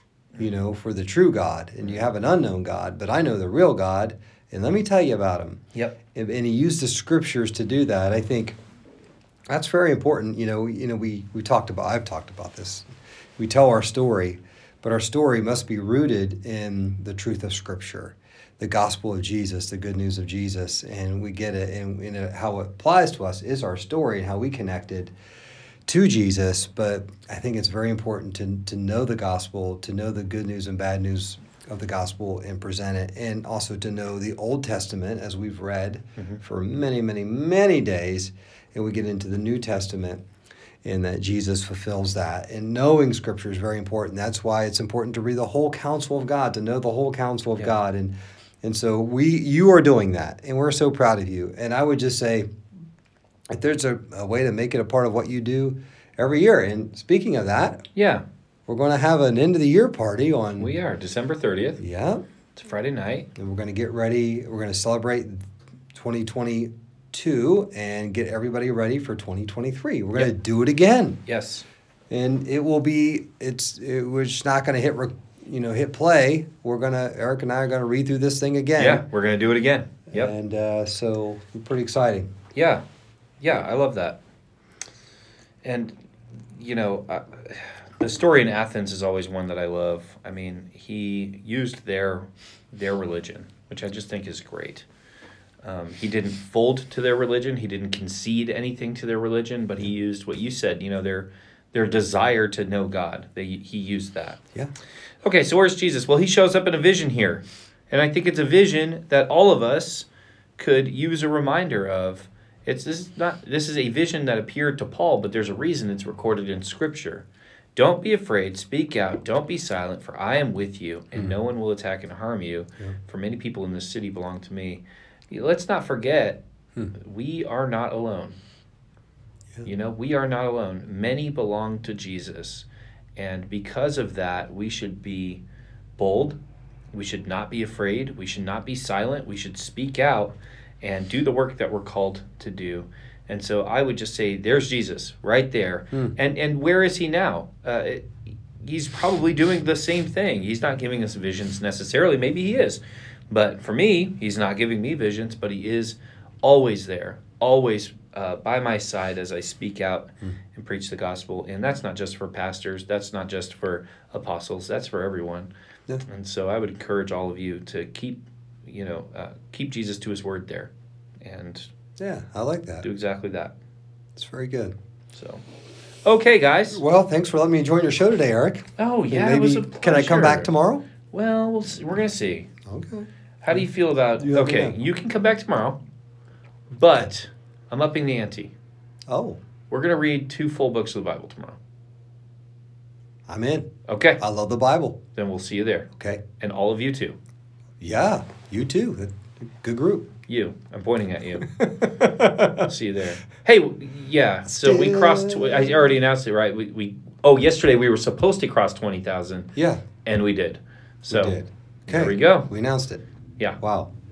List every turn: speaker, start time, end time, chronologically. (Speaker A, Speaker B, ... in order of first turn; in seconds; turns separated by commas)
Speaker A: 0.4-5.6, Speaker A: 6.1-8.6, Speaker A: 9.5-12.9, Speaker A: 13.4-25.1, Speaker A: 25.9-40.2, Speaker A: 40.8-52.5, Speaker A: 53.5-57.8, Speaker B: 58.0-58.2, Speaker A: 58.7-60.7, Speaker B: 60.6-61.8, Speaker A: 61.8-62.2, Speaker B: 62.6-63.3, Speaker A: 63.4-65.4, Speaker A: 65.9-71.2, Speaker B: 71.3-71.7, Speaker A: 72.1-79.0, Speaker B: 78.8-80.3, Speaker A: 80.1-82.3, Speaker B: 82.5-82.8, Speaker B: 83.4-84.2, Speaker B: 85.6-86.0, Speaker B: 86.5-94.8, Speaker B: 95.6-104.4, Speaker B: 105.2-110.1, Speaker B: 110.6-117.2, Speaker B: 117.8-126.4, Speaker B: 126.9-128.4, Speaker B: 129.6-135.4, Speaker B: 136.0-136.4, Speaker B: 136.9-165.5, Speaker B: 166.1-170.7, Speaker B: 171.2-171.7, Speaker A: 172.0-172.9, Speaker B: 172.8-173.5, Speaker A: 174.2-174.7, Speaker B: 175.1-175.4, Speaker B: 176.1-176.8, Speaker A: 176.7-180.8, Speaker B: 178.8-180.5, Speaker B: 181.1-182.5, Speaker A: 182.7-183.7, Speaker B: 183.4-185.8, Speaker A: 184.2-184.8, Speaker B: 186.7-188.5, Speaker A: 189.1-189.4, Speaker B: 189.7-191.6, Speaker A: 193.3-193.7, Speaker B: 193.9-194.2, Speaker A: 194.2-195.0, Speaker B: 195.2-195.9, Speaker A: 196.0-196.2, Speaker B: 196.4-197.2, Speaker A: 197.8-200.1, Speaker B: 200.3-201.5, Speaker A: 201.6-202.7, Speaker B: 202.5-209.5, Speaker A: 204.5-205.9, Speaker A: 209.6-209.8, Speaker B: 210.0-212.5, Speaker A: 211.1-213.0, Speaker A: 213.6-213.9